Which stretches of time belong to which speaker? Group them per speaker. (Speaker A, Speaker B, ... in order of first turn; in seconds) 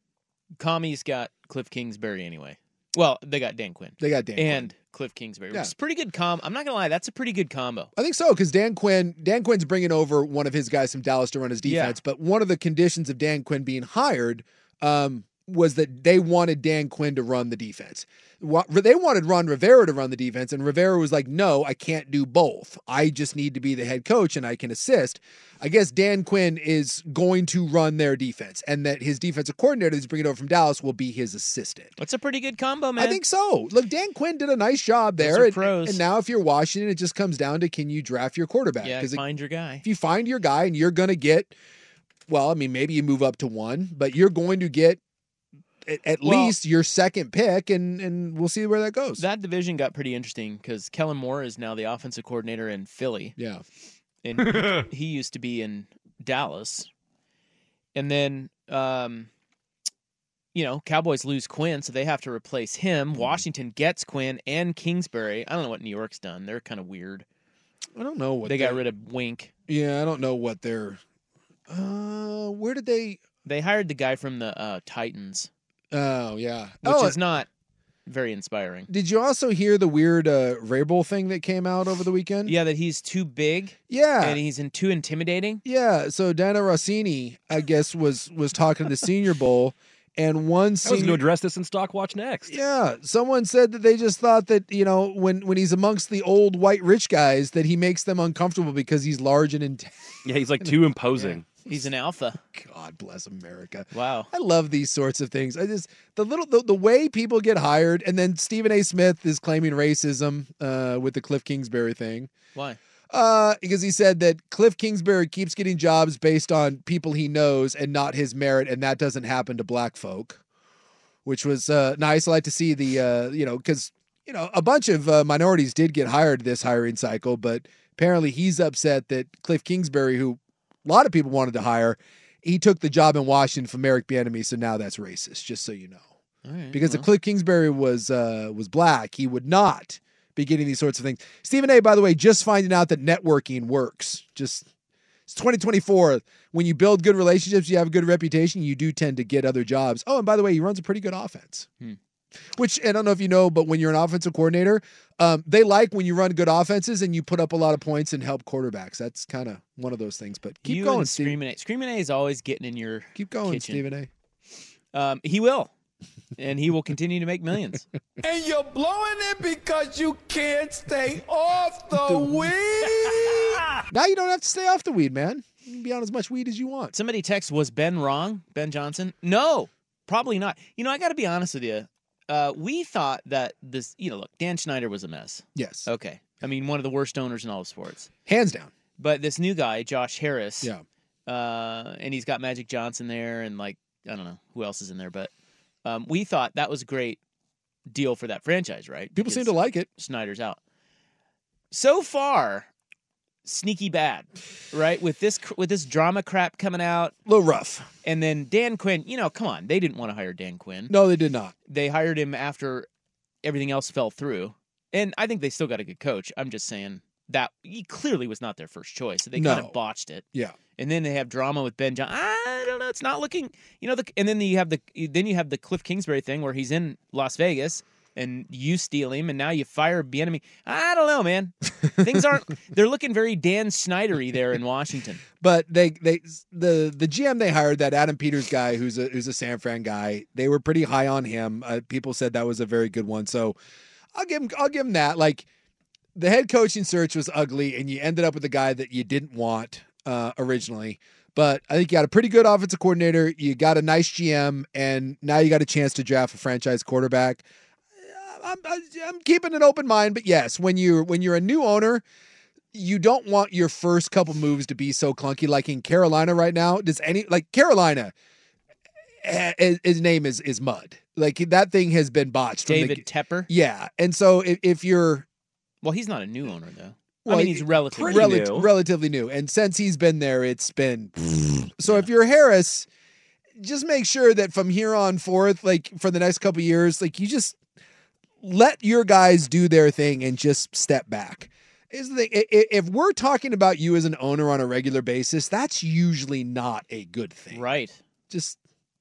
Speaker A: 0.6-7.9, 11.6-12.0, 32.0-33.2, 35.2-36.0, 38.8-39.8, 46.2-46.5, 49.2-53.4, 54.2-56.9, 57.9-59.3, 60.5-67.2, 68.4-69.5, 73.4-75.5, 76.8-77.5, 78.0-78.9, 82.5-85.6, 101.2-102.4, 103.9-104.3, 136.4-137.1, 160.6-163.8, 164.9-165.7, 166.4-167.8, 176.9-188.1, 189.0-190.7, 191.2-195.3, 195.8-197.2, 197.9-200.6, 201.7-202.7, 203.4-207.1, 208.0-210.9, 211.7-212.9, 213.4-220.2, 220.8-235.2, 272.6-273.5, 275.8-278.4, 297.5-298.0
Speaker B: 4.0-4.7, 8.0-31.9, 33.0-39.2, 39.8-41.5, 42.3-45.0, 45.8-49.2, 53.4-53.6, 67.9-68.8, 69.7-71.0, 71.7-73.2, 75.9-77.2, 78.9-82.5, 83.9-84.4, 85.6-91.2, 92.5-99.9, 102.5-112.3, 113.1-120.4, 121.2-136.1, 136.7-144.7, 145.3-151.7, 152.5-161.4, 163.1-164.1, 173.9-176.9, 185.5-185.9, 188.2-188.7, 199.1-199.9, 207.2-207.9, 210.9-211.5, 219.3-219.8, 235.4-243.6, 244.1-245.4, 246.1-257.4, 258.0-262.0, 262.7-268.1, 269.2-275.2, 277.2-282.9, 283.6-287.6, 288.4-297.6, 298.3-298.6
Speaker C: 90.8-92.5, 100.2-101.4, 277.9-278.7
Speaker D: 168.2-173.6